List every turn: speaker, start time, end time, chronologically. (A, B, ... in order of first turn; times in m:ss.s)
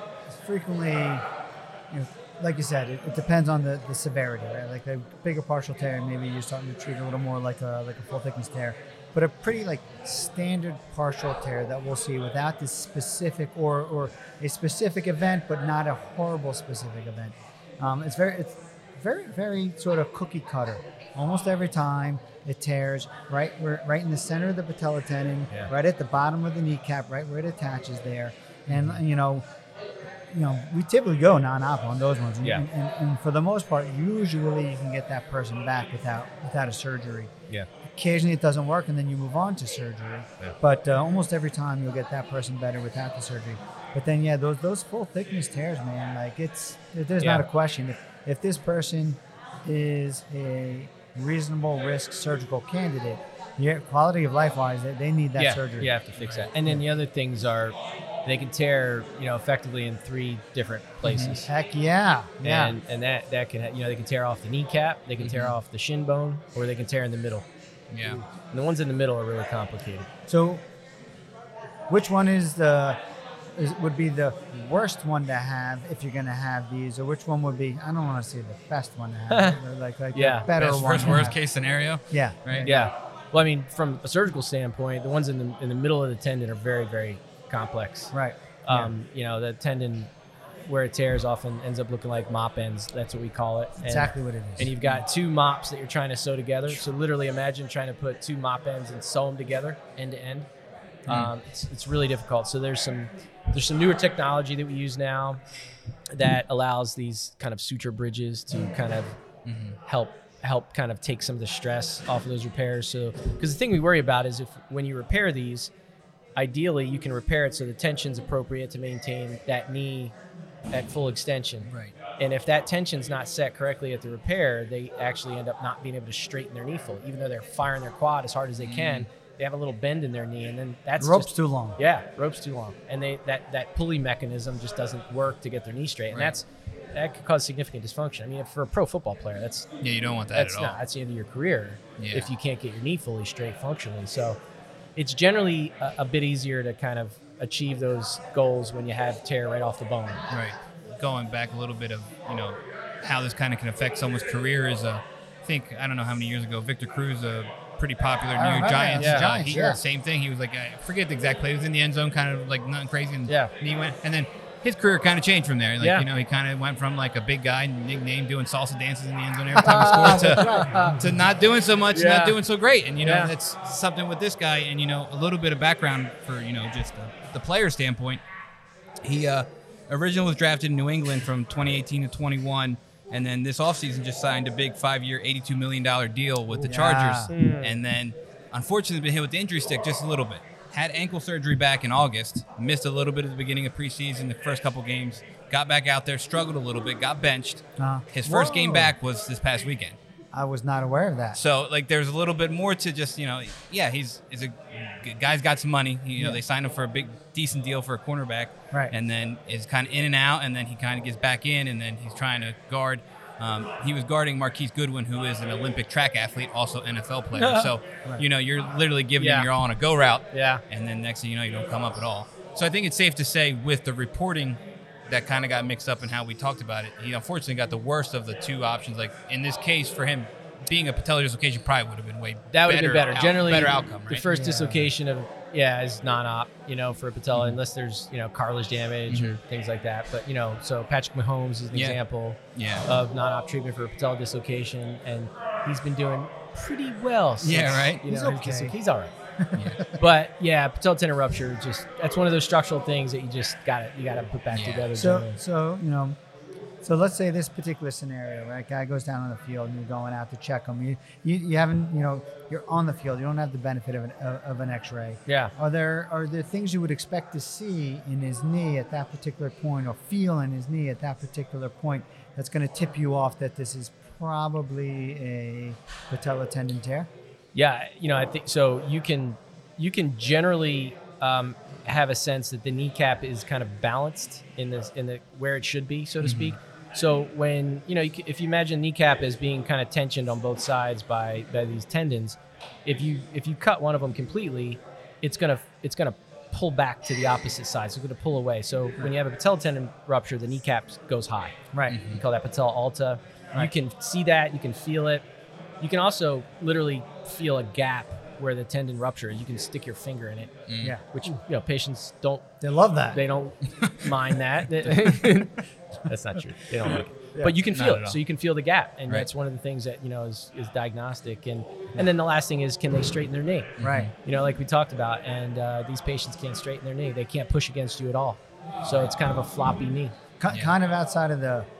0:00.3-0:01.2 A
0:01.9-0:29.4 A
0:28.7-0:29.0 B
0:30.3-0:37.3 A
0:37.9-0:55.9 A
0:47.2-0:47.5 C
0:55.4-1:01.5 C
0:56.2-0:56.5 B
1:01.1-1:01.4 B
1:01.2-1:02.8 A
1:02.4-1:07.5 C
1:05.2-1:05.6 B
1:07.9-1:08.2 B
1:08.5-1:10.1 C
1:10.3-1:10.6 A
1:11.9-1:13.0 A
1:13.6-1:21.4 A
1:19.3-1:19.6 C
1:20.1-1:20.5 C
1:20.5-1:22.7 B
1:22.1-1:22.9 A
1:22.6-1:28.1 C
1:28.1-1:28.9 A
1:28.6-1:30.1 C
1:30.6-1:40.5 C
1:33.8-1:34.7 A
1:41.1-1:41.3 B
1:41.1-1:45.4 C
1:46.1-1:49.2 C
1:49.5-1:49.8 B
1:49.8-1:55.7 C
1:56.4-2:00.1 C
2:00.7-2:19.7 C
2:01.6-2:01.9 B
2:08.6-2:09.1 B
2:11.0-2:11.8 A
2:19.8-2:20.8 B
2:20.3-2:24.4 C
2:22.0-2:22.3 B
2:25.0-2:30.2 C
2:30.3-2:58.2 B
2:38.3-2:39.8 A
2:39.0-2:39.3 C
2:43.3-2:43.5 C
2:45.8-2:46.1 C
2:49.6-2:50.7 A
2:49.6-2:51.0 C
2:51.9-2:52.4 C
2:53.0-2:53.3 C
2:59.0-3:20.0 B
3:06.6-3:07.3 A
3:07.3-3:07.8 C
3:17.8-3:18.9 A
3:20.3-3:21.4 A
3:21.3-3:54.3 B
3:37.4-3:37.7 C
3:39.2-3:39.5 C
3:40.3-3:40.6 C
3:52.5-4:09.1 C
3:54.3-3:54.9 A
3:57.3-3:57.6 B
3:59.1-3:59.4 B
4:01.7-4:02.0 B
4:02.5-4:02.9 B
4:07.4-4:08.0 B
4:08.0-4:08.8 A
4:09.4-4:10.0 A
4:09.6-4:09.8 B
4:09.9-4:15.4 C
4:14.5-4:14.9 B
4:15.0-4:16.2 A
4:16.8-4:37.1 A
4:25.3-4:25.5 C
4:37.5-5:05.3 C
4:46.2-4:46.6 B
5:01.7-5:02.0 A
5:01.9-5:02.2 B
5:05.8-5:12.5 C
5:10.7-5:11.0 B
5:12.6-5:13.2 A
5:13.1-5:30.2 C
5:17.7-5:18.2 B
5:23.8-5:24.1 B
5:23.8-5:24.1 A
5:30.4-5:31.7 A